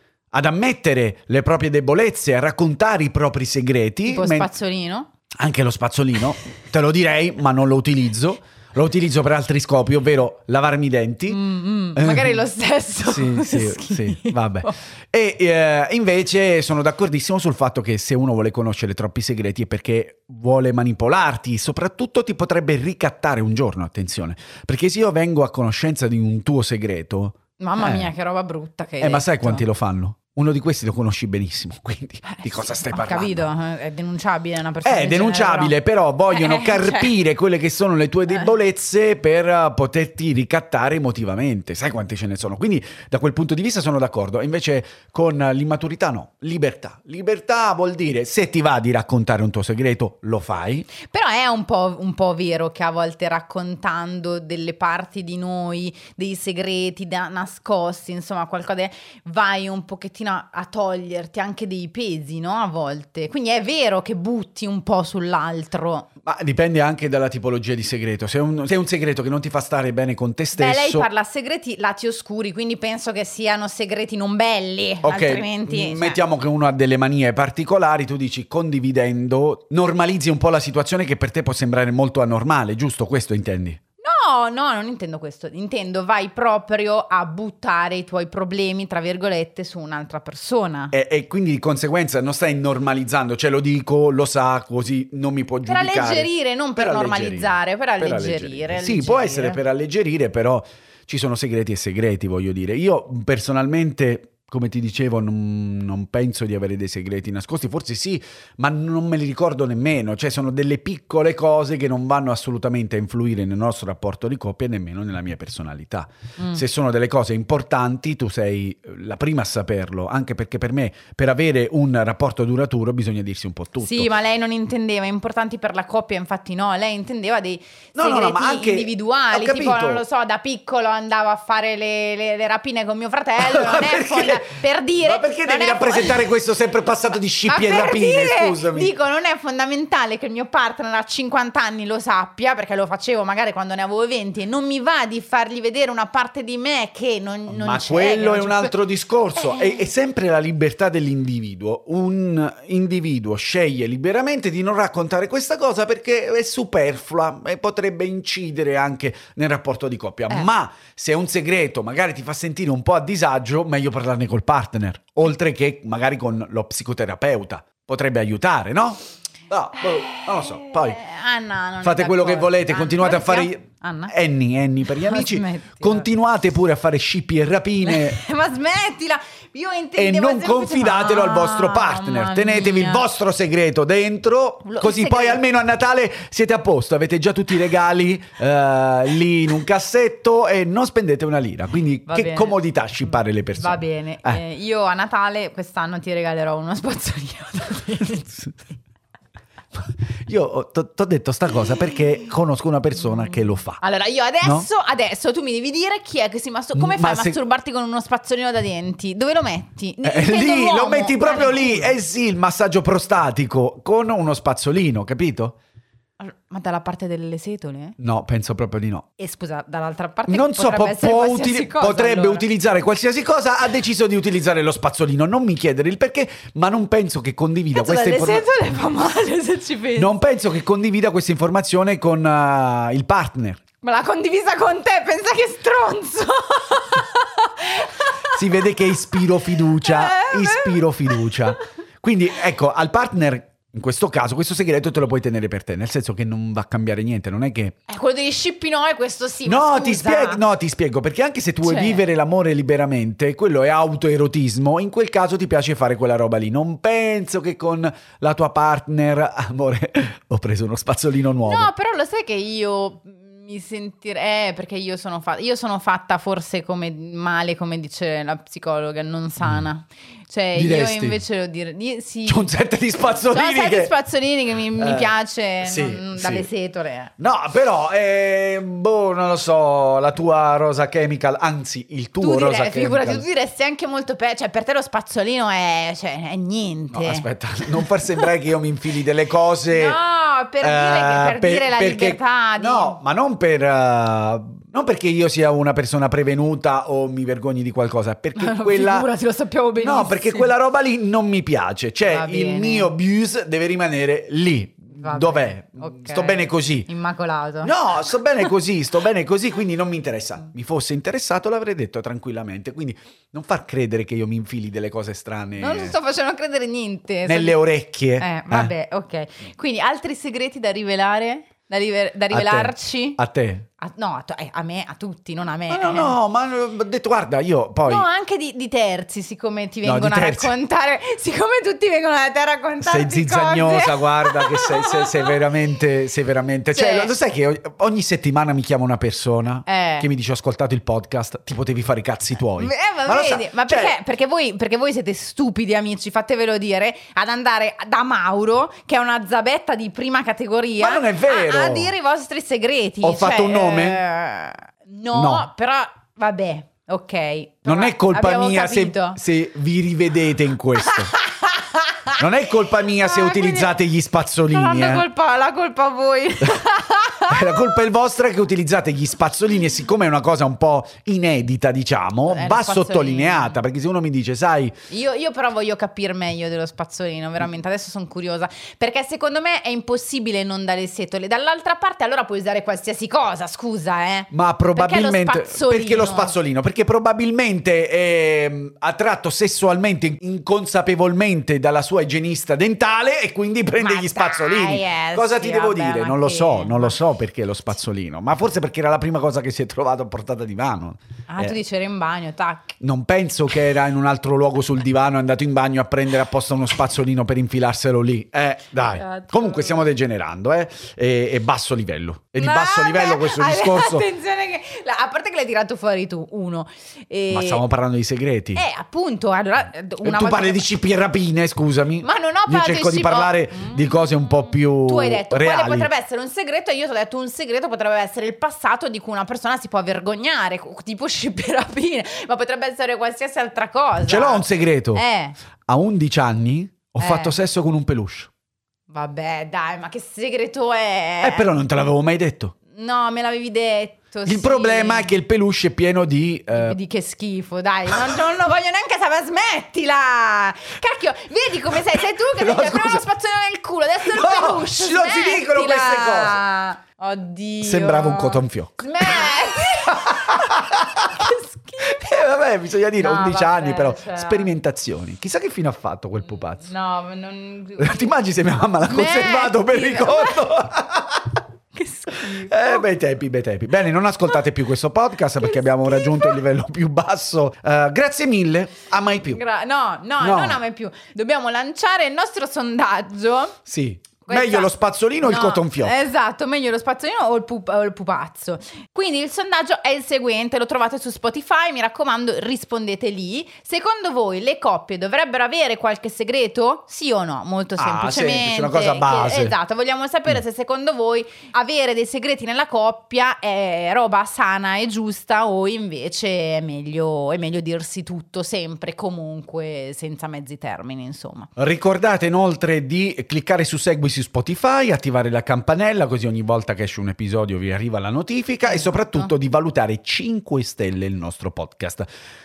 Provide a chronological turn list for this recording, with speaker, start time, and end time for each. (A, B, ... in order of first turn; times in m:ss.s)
0:00.3-0:04.5 A
0:04.0-0:05.1 B
0:05.4-0:11.4 A
0:11.3-0:14.8 B
0:11.9-0:12.4 A
0:13.0-0:28.1 A
0:27.6-0:29.6 B
0:29.0-0:33.5 A
0:32.2-0:35.7 B
0:34.8-0:50.9 A
0:36.3-0:37.1 B
0:51.0-1:06.1 B
1:06.2-1:11.1 A
1:10.6-1:16.2 B
1:15.0-1:23.8 A
1:24.0-1:30.9 B
1:30.9-2:04.1 A
1:35.6-1:39.6 B
1:56.4-1:56.6 B
2:03.8-2:16.3 B
2:08.0-2:10.0 A
2:13.4-2:18.9 A
2:17.5-2:28.8 B
2:27.5-2:51.0 A
2:29.4-2:29.8 B
2:50.1-2:54.1 B
2:51.8-2:58.2 A
2:54.8-2:56.1 B
2:57.8-3:03.1 B
3:00.0-3:14.4 A
3:04.6-3:05.4 B
3:12.1-3:18.7 B
3:19.8-3:23.8 A
3:23.0-3:32.0 B
3:24.4-3:24.7 A
3:26.8-3:27.4 A
3:30.0-3:35.6 A
3:36.2-3:38.0 B
3:38.0-3:39.0 A
3:39.2-3:42.4 B
3:40.3-3:48.5 A
3:47.7-3:50.1 B
3:49.9-3:53.6 A
3:53.8-3:59.2 B
3:58.3-4:07.7 A
3:59.8-4:01.4 B
4:07.9-4:10.4 B
4:09.4-4:21.7 A
4:11.6-4:12.0 B
4:21.4-4:32.5 B
4:30.5-4:31.2 A
4:32.2-4:33.9 A
4:33.2-4:37.1 B
4:34.8-4:36.5 A
4:37.2-4:43.2 A
4:42.2-4:48.2 B
4:46.9-4:50.0 A
4:49.7-4:53.0 B
4:50.6-4:59.1 A
4:58.3-5:00.5 B
4:59.8-5:06.9 A
5:02.0-5:02.9 B
5:04.9-5:07.7 B
5:07.6-5:16.0 A
5:15.6-5:17.6 B
5:17.2-5:18.7 A
5:18.2-5:23.2 B
5:22.3-5:23.6 A
5:23.8-5:26.1 B
5:25.7-5:28.1 A
5:27.8-5:35.3 B
5:29.8-5:30.6 A
5:32.8-5:44.0 A
5:36.7-5:37.1 B
5:39.6-5:40.1 B
5:42.6-5:59.2 B
5:50.8-5:51.9 A
5:53.0-5:54.0 A
5:55.1-5:55.5 A
5:57.6-6:01.1 A
6:00.8-6:02.2 B
6:02.2-6:05.1 A
6:02.7-6:03.7 B
6:04.5-6:07.6 B
6:07.3-6:14.7 A
6:12.2-6:13.6 B
6:14.9-6:26.4 B
6:24.3-6:41.6 A
6:33.8-6:37.0 B
6:41.3-6:42.8 B
6:42.8-6:54.1 A
6:49.0-6:49.9 B
6:52.4-6:57.6 B
6:57.3-6:58.6 A
6:58.5-7:00.6 B
7:00.0-7:05.9 A
7:02.0-7:15.4 B
7:14.0-7:15.0 A
7:15.7-7:18.3 A
7:17.0-7:17.4 B
7:18.9-7:21.5 B
7:21.2-7:22.5 A
7:22.7-7:25.1 B
7:24.2-7:26.8 A
7:26.5-7:42.3 B
7:32.3-7:33.0 A
7:34.0-7:36.4 A
7:37.6-7:41.2 A
7:41.8-7:46.7 A
7:43.0-7:44.5 B
7:46.2-7:48.2 B
7:47.8-7:51.4 A
7:48.8-7:50.5 B
7:51.7-7:52.8 B
7:52.2-7:59.4 A
7:55.4-7:56.4 B
7:59.2-8:03.6 B
8:00.2-8:00.6 A
8:03.6-8:06.0 A
8:04.2-8:31.5 B
8:17.8-8:19.6 A
8:31.6-8:42.1 A
8:38.6-8:39.3 B